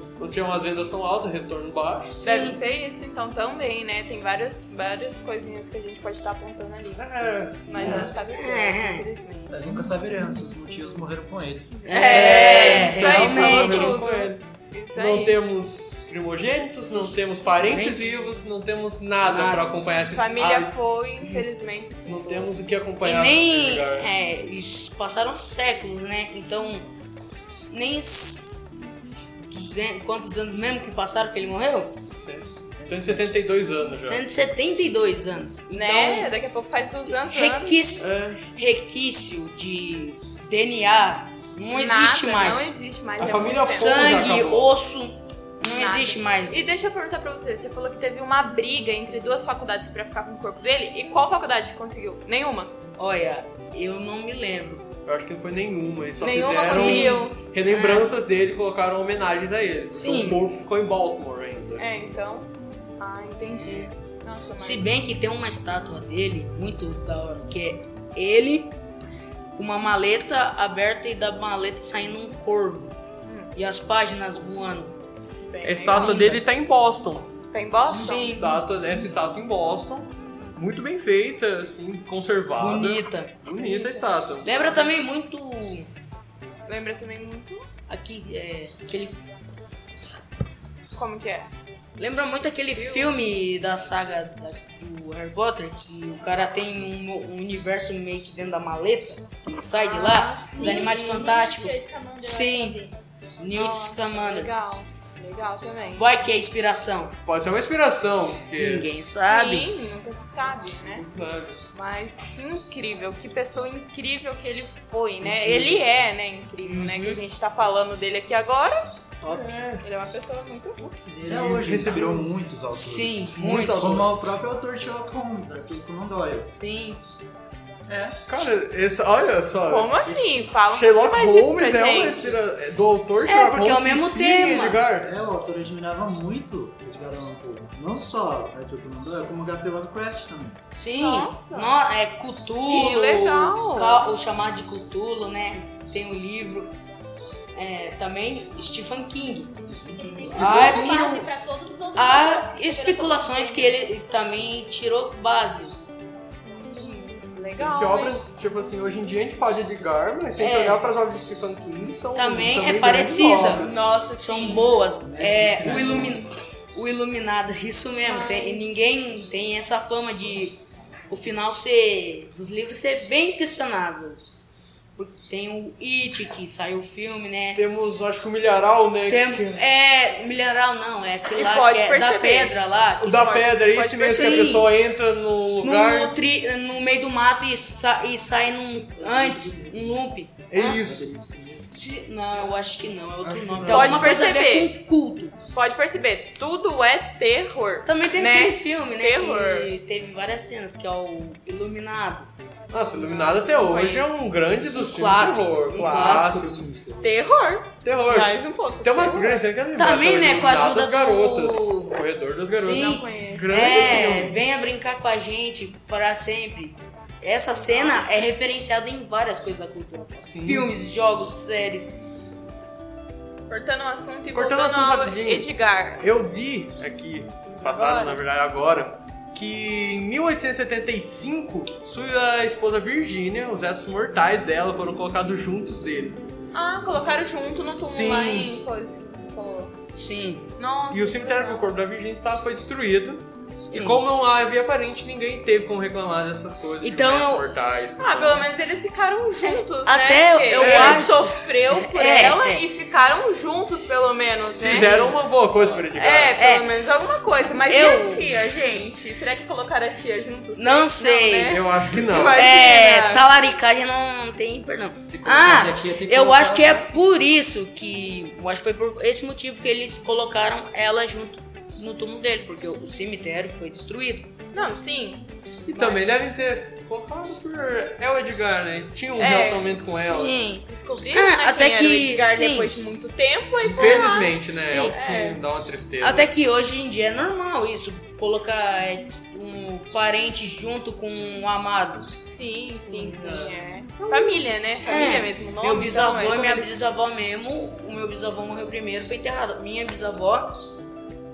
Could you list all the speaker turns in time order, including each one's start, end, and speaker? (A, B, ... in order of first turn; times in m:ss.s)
0:00.2-0:02.2 A
0:02.2-0:02.6 B
0:02.2-0:07.1 C
0:07.0-0:08.1 A
0:07.7-0:09.7 C
0:07.8-0:08.1 D
0:08.3-0:09.0 B
0:09.5-0:11.8 D
0:11.8-0:15.4 C
0:11.8-0:14.0 B
0:12.0-0:20.7 A
0:16.9-0:18.2 B
0:19.3-0:19.6 B
0:20.1-0:22.6 C
0:22.0-0:24.1 A
0:23.0-0:26.9 B
0:27.5-0:28.7 B
0:29.5-0:31.9 B
0:31.9-0:34.2 A
0:32.7-0:33.3 D
0:34.0-0:36.3 B
0:35.7-0:37.8 C
0:37.2-0:42.7 B
0:38.0-0:38.4 A
0:41.7-0:44.5 C
0:43.2-0:44.8 A
0:43.7-0:46.6 B
0:45.7-0:52.7 C
0:53.0-0:54.8 B
0:55.0-1:01.8 A
0:56.2-0:57.4 C
0:56.3-0:58.1 B
0:59.9-1:00.4 B
1:01.8-1:04.9 C
1:04.6-1:08.7 B
1:09.5-1:13.0 B
1:13.2-1:13.5 C
1:13.5-1:15.0 B
1:15.5-1:16.4 C
1:15.6-1:17.4 A
1:15.9-1:16.4 B
1:17.5-1:18.4 C
1:17.9-1:18.6 B
1:18.0-1:24.9 A
1:22.6-1:23.6 B
1:23.5-1:24.1 C
1:24.4-1:25.9 B
1:26.7-1:27.6 C
1:27.9-1:29.2 B
1:31.0-1:31.5 C
1:32.0-1:42.8 B
1:32.7-1:33.1 C
1:39.7-1:41.0 C
1:40.5-1:42.9 E
1:43.4-1:44.5 B
1:43.5-1:46.1 C
1:45.9-1:47.2 B
1:47.2-1:48.9 A
1:48.6-1:49.7 B
1:49.1-1:51.0 C
1:50.9-1:51.6 A
1:51.7-1:58.8 C
1:55.3-1:55.7 B
1:56.6-1:57.2 B
1:59.2-1:59.8 A
1:59.8-2:00.8 C
2:00.8-2:02.1 B
2:01.2-2:06.5 D
2:01.3-2:02.2 A
2:02.7-2:04.1 B
2:03.4-2:04.1 A
2:06.5-2:07.0 B
2:07.9-2:08.2 D
2:08.3-2:10.0 A
2:09.6-2:12.4 C
2:10.7-2:15.1 A
2:13.2-2:14.8 B
2:15.0-2:20.6 D
2:20.7-2:26.7 B
2:21.0-2:21.8 C
2:22.6-2:24.0 C
2:27.5-2:29.7 B
2:29.6-2:30.9 D
2:30.0-2:33.8 E
2:30.3-2:31.3 B
2:30.3-2:31.2 A
2:31.9-2:35.9 B
2:36.2-2:38.2 C
2:37.5-2:43.8 A
2:40.4-2:40.8 B
2:42.1-2:54.2 B
2:43.5-2:44.8 C
2:45.0-2:46.4 D
2:48.1-2:48.8 C
2:55.0-2:57.6 B
2:57.5-2:59.6 A
2:59.1-3:03.5 B
3:01.4-3:04.6 C
3:03.0-3:06.1 A
3:04.0-3:04.7 B
3:05.6-3:10.8 B
3:09.0-3:10.0 D
3:10.5-3:11.1 A
3:10.6-3:11.7 D
3:11.7-3:15.4 B
3:13.2-3:14.0 D
3:13.7-3:14.8 C
3:15.5-3:19.7 C
3:17.8-3:22.3 B
3:22.7-3:26.7 A
3:23.1-3:24.2 C
3:24.7-3:26.6 B
3:25.7-3:27.2 D
3:27.0-3:29.4 C
3:27.8-3:34.4 A
3:29.8-3:31.9 B
3:32.5-3:42.0 B
3:32.7-3:34.2 C
3:37.7-3:38.3 C
3:40.2-3:40.7 A
3:43.5-3:46.0 C
3:44.3-3:56.2 A
3:47.6-3:48.2 C
3:56.5-3:59.8 C
3:57.8-3:58.5 A
3:59.9-4:00.5 B
4:00.6-4:01.7 C
4:00.9-4:08.5 A
4:03.5-4:04.0 B
4:06.8-4:07.5 B
4:08.0-4:15.1 C
4:09.4-4:12.6 B
4:10.6-4:11.2 A
4:14.6-4:16.4 A
4:14.6-4:15.2 B
4:15.9-4:23.3 C
4:16.3-4:16.7 B
4:17.6-4:18.8 B
4:20.6-4:21.6 B
4:21.5-4:22.4 A
4:22.3-4:34.3 B
4:25.0-4:26.9 D
4:34.5-4:36.0 C
4:35.6-4:40.4 A
4:39.2-4:39.7 C
4:39.9-4:42.7 B
4:40.6-4:45.4 C
4:43.7-4:46.3 A
4:44.6-4:45.0 B
4:46.0-4:52.1 B
4:52.3-4:56.7 C
4:52.9-4:54.4 A
4:54.8-5:00.6 B